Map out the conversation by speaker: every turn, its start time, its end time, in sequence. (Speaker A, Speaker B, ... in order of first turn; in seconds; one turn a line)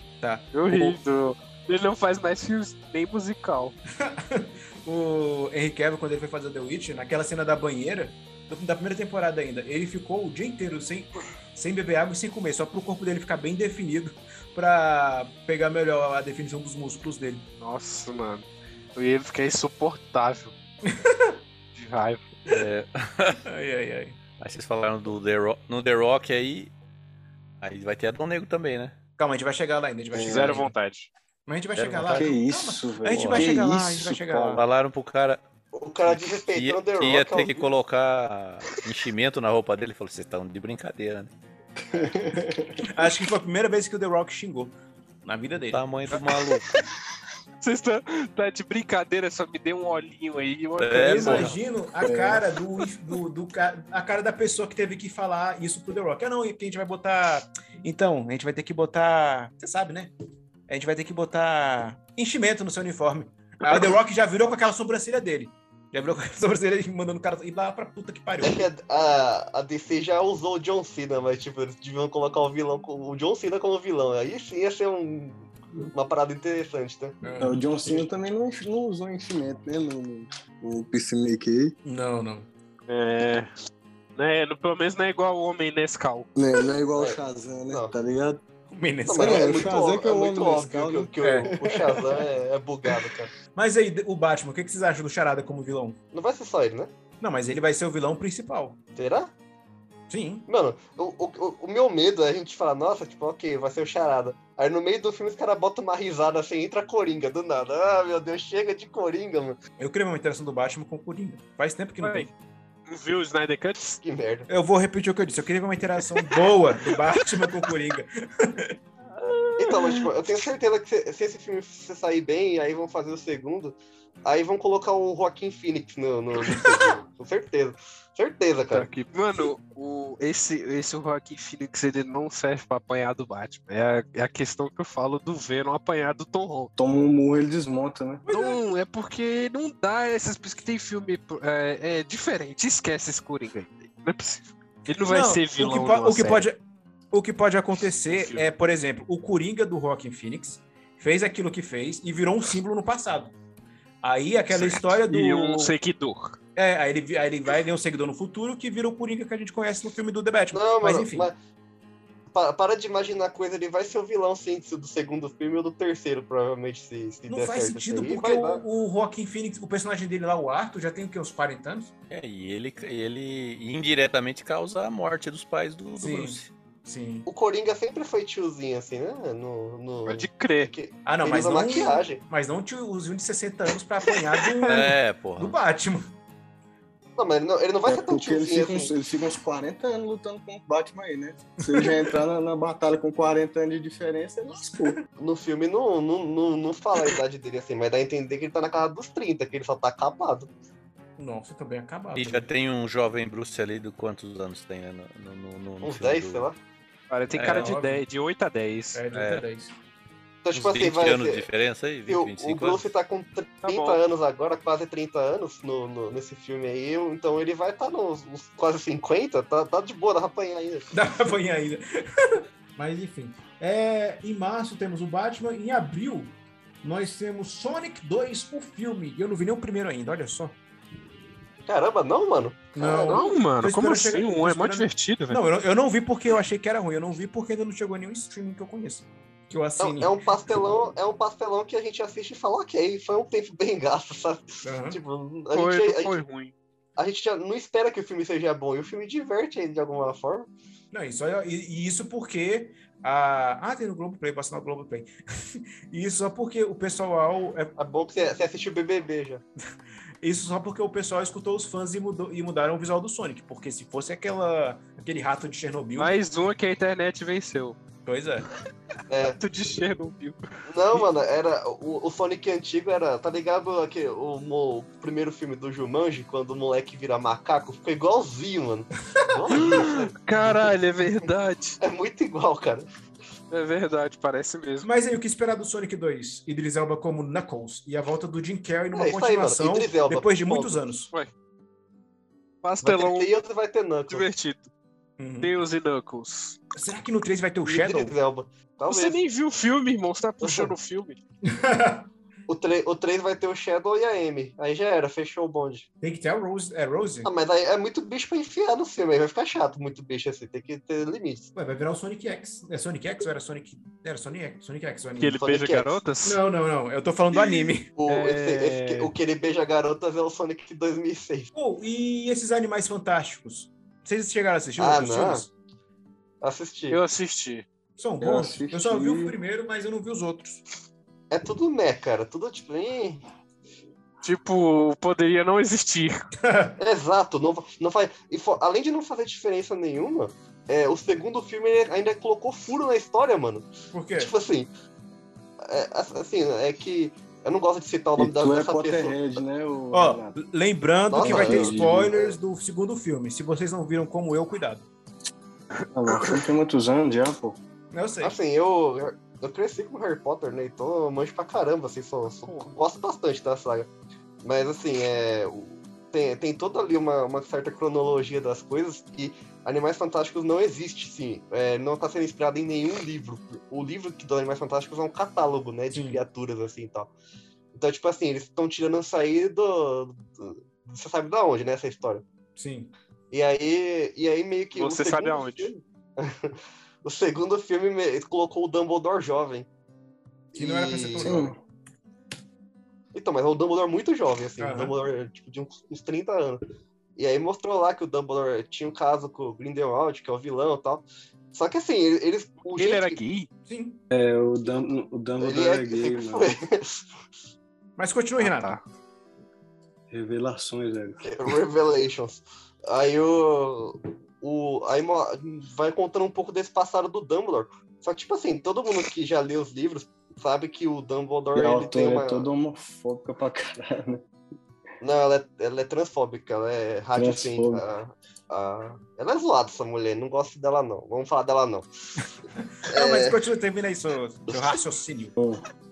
Speaker A: 0.2-1.0
Speaker B: 0.5-3.8
Speaker A: 4.0-17.4
Speaker B: 17.6-20.5
Speaker A: 20.9-21.3
Speaker B: 21.7-22.3
Speaker C: 22.5-23.4
Speaker A: 23.5-24.2
Speaker C: 24.4-26.7
Speaker C: 27.6-28.9
Speaker A: 29.2-30.7
Speaker D: 30.1-30.6
Speaker B: 30.1-31.1
Speaker A: 31.5-34.6
Speaker C: 31.7-32.4
Speaker D: 32.1-34.6
Speaker C: 33.1-33.6
Speaker C: 34.5-35.4
Speaker E: 35.7-37.7
Speaker C: 36.1-41.3
Speaker D: 41.9-42.9
Speaker A: 42.9-44.7
Speaker A: 45.2-46.1
Speaker C: 45.7-46.7
Speaker B: 47.6-51.5
Speaker C: 50.8-51.5
Speaker A: 50.9-60.1
Speaker D: 52.0-52.4
Speaker A: 60.7-68.7
Speaker E: 68.4-77.2
Speaker A: 77.2-78.0
Speaker D: 77.4-81.7
Speaker A: 81.8-82.5
Speaker B: 82.9-83.5
Speaker B: 84.2-86.3
Speaker D: 86.3-88.4
Speaker E: 87.0-87.9
Speaker A: 88.7-89.6
Speaker E: 89.1-93.3
Speaker D: 89.2-92.2
Speaker A: 91.2-91.5
Speaker A: 93.5-96.0
Speaker E: 96.1-96.9
Speaker A: 97.2-98.8
Speaker E: 99.0-99.3
Speaker A: 100.1-100.5
Speaker E: 100.5-109.6
Speaker A: 109.8-112.3
Speaker B: 112.0-112.3
Speaker B: 112.9-114.0
Speaker E: 114.0-114.5
Speaker A: 114.5-118.7
Speaker B: 119.2-120.0
Speaker E: 119.6-128.9
Speaker B: 128.7-136.7
Speaker D: 136.8-138.2
Speaker A: 138.3-138.6
Speaker B: 138.3-146.5
Speaker A: 145.1-146.6
Speaker A: 147.1-153.3
Speaker B: 148.1-148.5
Speaker A: 154.0-155.7
Speaker B: 154.5-156.4
Speaker A: 156.6-161.3
Speaker E: 160.5-161.4
Speaker E: 162.3-168.6
Speaker A: 167.3-171.9
Speaker C: 172.1-176.5
Speaker A: 175.9-177.3
Speaker E: 177.3-182.2
Speaker B: 180.1-180.7
Speaker A: 181.1-186.0
Speaker C: 184.6-185.6
Speaker E: 187.2-188.9
Speaker D: 187.8-195.0
Speaker A: 191.7-192.1
Speaker E: 195.2-200.5
Speaker A: 201.2-202.5
Speaker C: 202.1-206.5
Speaker E: 205.8-206.6
Speaker B: 207.1-209.0
Speaker C: 207.3-207.8
Speaker A: 207.4-208.0
Speaker A: 208.9-209.7
Speaker C: 209.1-209.4
Speaker E: 210.4-211.5
Speaker C: 210.5-212.9
Speaker E: 212.1-220.9
Speaker B: 213.6-214.0
Speaker A: 220.9-230.6
Speaker E: 231.7-233.3
Speaker A: 232.7-240.1
Speaker B: 233.1-235.4
Speaker E: 239.8-246.2
Speaker A: 244.6-245.0
Speaker B: 245.5-246.5
Speaker E: 247.0-250.5
Speaker A: 250.9-257.7
Speaker E: 257.8-259.4
Speaker A: 260.2-266.1
Speaker B: 266.0-267.8
Speaker A: 268.1-268.5
Speaker E: 269.1-269.4
Speaker B: 269.3-270.4
Speaker E: 270.7-280.6
Speaker B: 279.5-281.8
Speaker E: 281.8-282.9
Speaker B: 283.5-284.9
Speaker A: 284.8-291.1
Speaker E: 288.9-290.8
Speaker B: 292.6-293.3
Speaker E: 292.8-294.2
Speaker B: 294.1-294.7
Speaker A: 295.2-295.5
Speaker B: 295.4-296.6
Speaker A: 296.7-298.1
Speaker E: 297.6-299.2
Speaker B: 298.9-301.2
Speaker E: 300.4-300.7
Speaker A: 301.4-302.1
Speaker E: 302.5-305.9
Speaker A: 306.0-307.3
Speaker E: 307.2-311.5
Speaker A: 311.5-315.4
Speaker B: 315.2-316.4
Speaker E: 315.4-316.0
Speaker A: 316.2-317.9
Speaker E: 318.0-321.5
Speaker B: 318.1-319.1
Speaker A: 321.5-325.5
Speaker E: 324.8-325.4
Speaker E: 326.4-327.0
Speaker B: 326.9-327.6
Speaker A: 328.0-330.6
Speaker D: 328.2-329.4
Speaker E: 331.3-333.2
Speaker B: 334.2-336.3
Speaker A: 336.4-336.8
Speaker E: 336.8-344.7
Speaker A: 343.9-344.3
Speaker E: 345.6-349.2
Speaker D: 348.1-350.4
Speaker A: 349.9-354.9
Speaker E: 351.1-352.4
Speaker D: 351.2-352.1
Speaker D: 355.9-357.6
Speaker B: 356.1-356.4
Speaker A: 357.9-358.3
Speaker E: 358.2-363.9
Speaker E: 364.4-377.1
Speaker A: 375.9-376.2
Speaker E: 377.7-382.2
Speaker A: 382.6-382.9
Speaker E: 383.3-389.7
Speaker B: 384.7-385.7
Speaker E: 390.5-391.4
Speaker A: 390.5-391.5
Speaker D: 391.2-391.6
Speaker E: 393.1-396.6
Speaker A: 394.6-394.9
Speaker E: 397.2-403.2
Speaker B: 402.7-403.5
Speaker A: 403.7-404.0
Speaker D: 404.1-406.6
Speaker E: 405.4-407.0
Speaker A: 408.0-408.7
Speaker B: 408.4-408.8
Speaker D: 410.1-411.3
Speaker E: 411.2-422.4
Speaker D: 421.5-424.2
Speaker E: 425.0-431.9
Speaker D: 427.1-427.8
Speaker A: 432.8-435.3
Speaker E: 432.9-433.4
Speaker D: 435.4-435.6